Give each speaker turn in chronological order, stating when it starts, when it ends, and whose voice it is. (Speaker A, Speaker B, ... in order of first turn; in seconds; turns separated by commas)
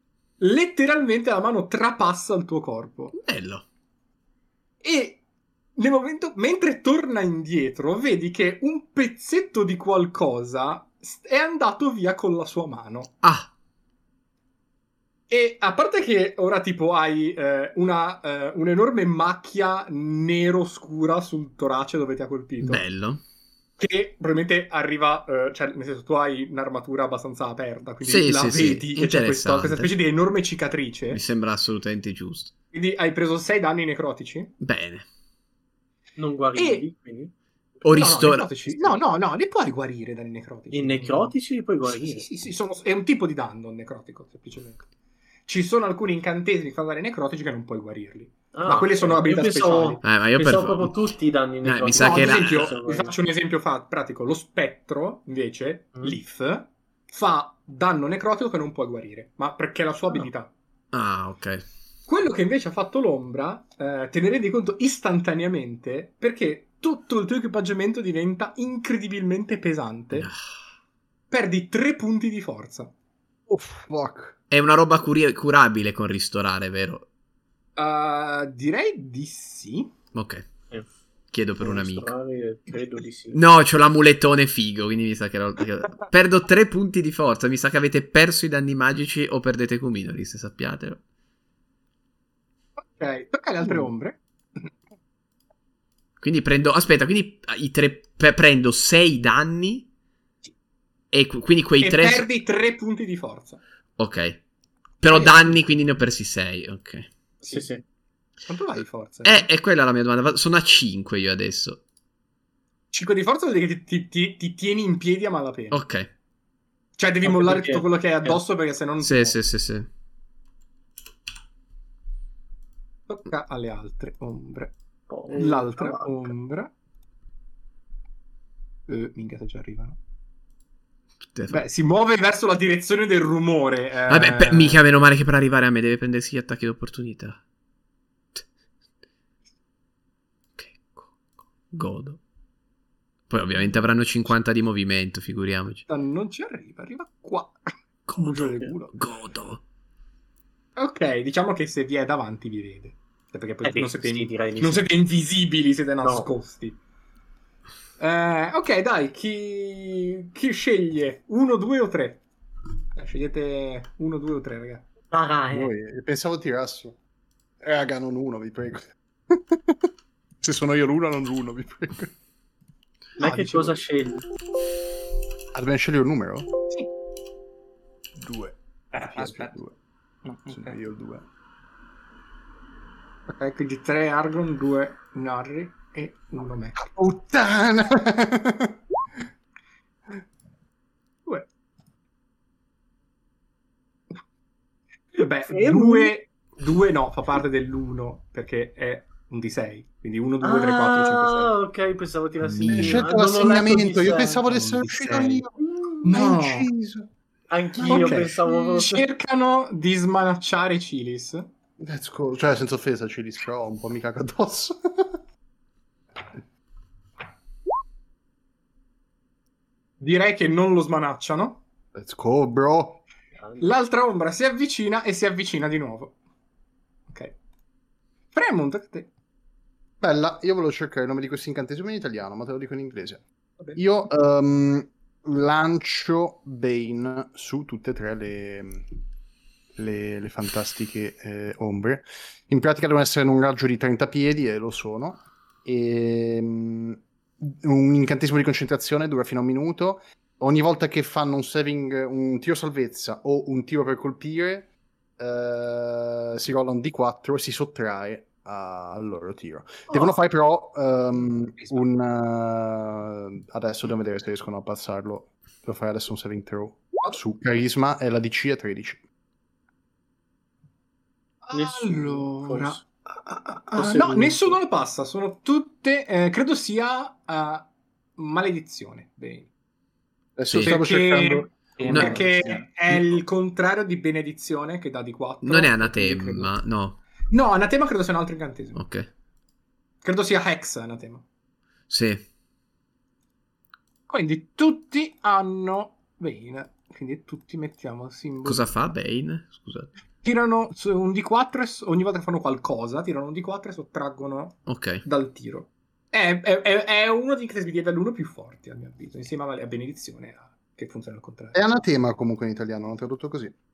Speaker A: 0.4-3.1, Speaker B: 3.1-3.6, Speaker A: 4.8-5.2, Speaker A: 5.8-13.1, Speaker B: 13.2-13.5, Speaker A: 15.3-22.9, Speaker B: 22.6-23.2, Speaker A: 23.8-31.2, Speaker B: 28.0-29.9, Speaker B: 31.1-32.5, Speaker A: 32.7-34.5, Speaker B: 34.6-35.1, Speaker C: 36.2-37.3, Speaker A: 36.6-36.9, Speaker B: 37.8-38.9, Speaker A: 37.9-41.4, Speaker C: 40.7-42.3, Speaker A: 41.9-44.8, Speaker A: 45.5-50.0, Speaker C: 48.5-53.1, Speaker B: 50.0-52.8, Speaker A: 52.0-60.5, Speaker B: 60.9-61.6, Speaker A: 62.1-70.3, Speaker A: 71.3-72.9, Speaker D: 73.5-74.4, Speaker B: 74.5-77.1, Speaker A: 77.8-79.9, Speaker B: 80.1-80.5, Speaker B: 81.3-82.1, Speaker C: 81.6-83.4, Speaker B: 83.3-91.0, Speaker A: 92.9-94.7, Speaker B: 96.2-99.9, Speaker B: 101.1-102.3, Speaker A: 101.8-103.6, Speaker B: 104.0-104.4, Speaker B: 105.0-107.1, Speaker A: 105.1-105.4, Speaker C: 107.4-107.8, Speaker A: 108.5-109.5, Speaker B: 109.2-111.8, Speaker A: 112.9-115.8, Speaker B: 115.7-116.1, Speaker A: 117.0-119.4, Speaker C: 117.2-118.4, Speaker B: 119.0-119.9, Speaker A: 123.1-124.8, Speaker C: 125.1-126.2, Speaker A: 125.3-126.7, Speaker A: 128.9-130.0, Speaker B: 131.3-131.6, Speaker A: 131.5-134.8, Speaker B: 134.1-137.4, Speaker B: 140.6-141.2, Speaker B: 141.7-142.2, Speaker B: 143.3-145.8, Speaker A: 145.9-147.6, Speaker B: 148.1-149.6, Speaker A: 148.2-148.9, Speaker A: 150.8-156.8, Speaker C: 153.6-154.9, Speaker C: 156.0-156.3, Speaker A: 158.0-162.2, Speaker A: 162.9-164.9, Speaker C: 165.1-165.7, Speaker D: 165.5-167.0, Speaker D: 167.6-169.9, Speaker D: 170.4-172.1, Speaker C: 173.2-174.2, Speaker A: 173.2-173.8, Speaker D: 175.5-176.5, Speaker D: 178.2-179.7, Speaker E: 179.0-179.6, Speaker E: 180.2-180.8, Speaker D: 180.5-181.2, Speaker A: 183.3-186.8, Speaker D: 186.8-188.8, Speaker A: 195.1-201.5, Speaker C: 195.4-196.1, Speaker C: 200.4-204.4, Speaker D: 202.5-207.1, Speaker A: 204.4-205.4, Speaker C: 205.7-206.0, Speaker A: 206.0-206.7, Speaker C: 207.5-209.0, Speaker D: 207.8-208.2, Speaker A: 207.8-211.5, Speaker D: 211.8-215.2, Speaker A: 220.0-221.6, Speaker D: 221.9-223.0, Speaker C: 223.4-223.7, Speaker A: 223.6-226.2, Speaker A: 227.1-227.3, Speaker A: 228.3-229.1, Speaker D: 230.0-233.2, Speaker D: 233.8-238.9, Speaker D: 239.8-269.0, Speaker A: 271.4-279.5, Speaker C: 271.5-272.9, Speaker C: 273.7-274.6, Speaker D: 280.4-283.2, Speaker B: 280.5-280.8, Speaker A: 280.6-286.5, Speaker E: 281.8-282.6, Speaker B: 281.9-282.2, Speaker B: 285.4-287.0, Speaker A: 287.3-288.8, Speaker B: 288.8-289.1, Speaker A: 290.0-291.2, Speaker B: 291.9-292.2, Speaker A: 294.1-298.8, Speaker B: 298.4-299.9, Speaker A: 300.2-311.6, Speaker B: 304.6-305.0, Speaker D: 311.5-313.5